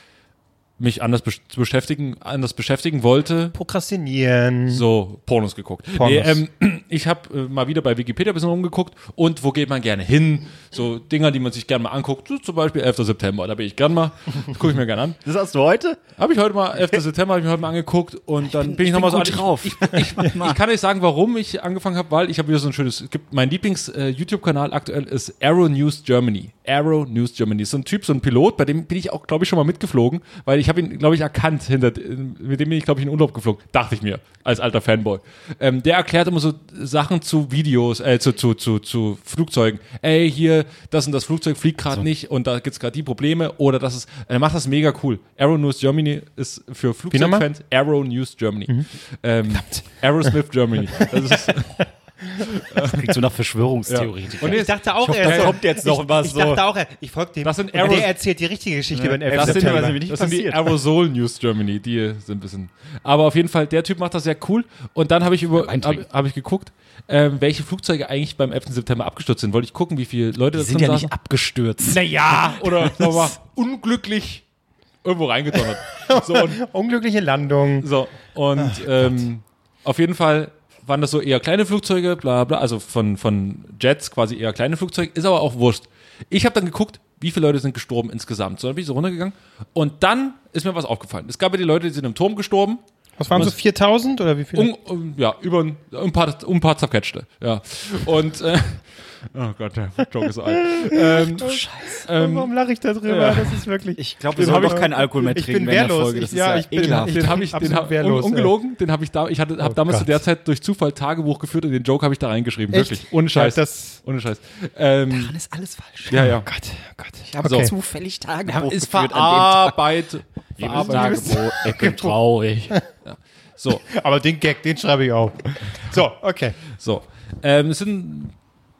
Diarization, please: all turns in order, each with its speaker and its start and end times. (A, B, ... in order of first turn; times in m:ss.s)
0:00.8-0:03.5 A
0:03.5-0:04.8 B
0:04.7-0:15.2 A
0:06.0-0:06.4 B
0:15.2-0:16.0 C
0:16.2-0:51.8 A
0:18.4-0:20.6 C
0:47.1-0:47.4 B
0:49.5-0:49.8 B
0:51.0-0:52.5 B
0:52.4-0:53.0 A
0:52.8-0:56.6 C
0:53.9-0:55.6 A
0:54.4-1:00.0 B
0:57.4-0:58.1 A
0:58.9-1:00.7 C
0:59.3-1:11.1 A
1:05.6-1:06.0 C
1:10.5-1:13.3 C
1:11.9-1:14.4 A
1:15.0-1:16.6 A
1:16.0-1:17.9 B
1:17.8-1:33.6 A
1:18.6-1:19.0 B
1:33.2-1:34.7 B
1:34.5-1:42.5 A
1:40.6-1:41.2 B
1:41.0-1:42.1 C
1:42.1-1:48.5 B
1:43.0-1:43.6 A
1:44.0-1:47.3 C
1:44.3-1:45.0 A
1:46.9-1:55.3 A
1:49.6-1:50.1 B
1:52.7-1:54.0 B
1:55.1-1:56.3 C
1:56.1-1:56.5 A
1:56.2-1:57.7 B
1:57.3-1:59.8 C
1:57.4-1:57.7 A
1:58.5-2:01.4 A
2:00.6-2:02.8 C
2:00.7-2:02.2 B
2:03.0-2:03.8 A
2:03.9-2:06.6 B
2:06.7-2:08.3 A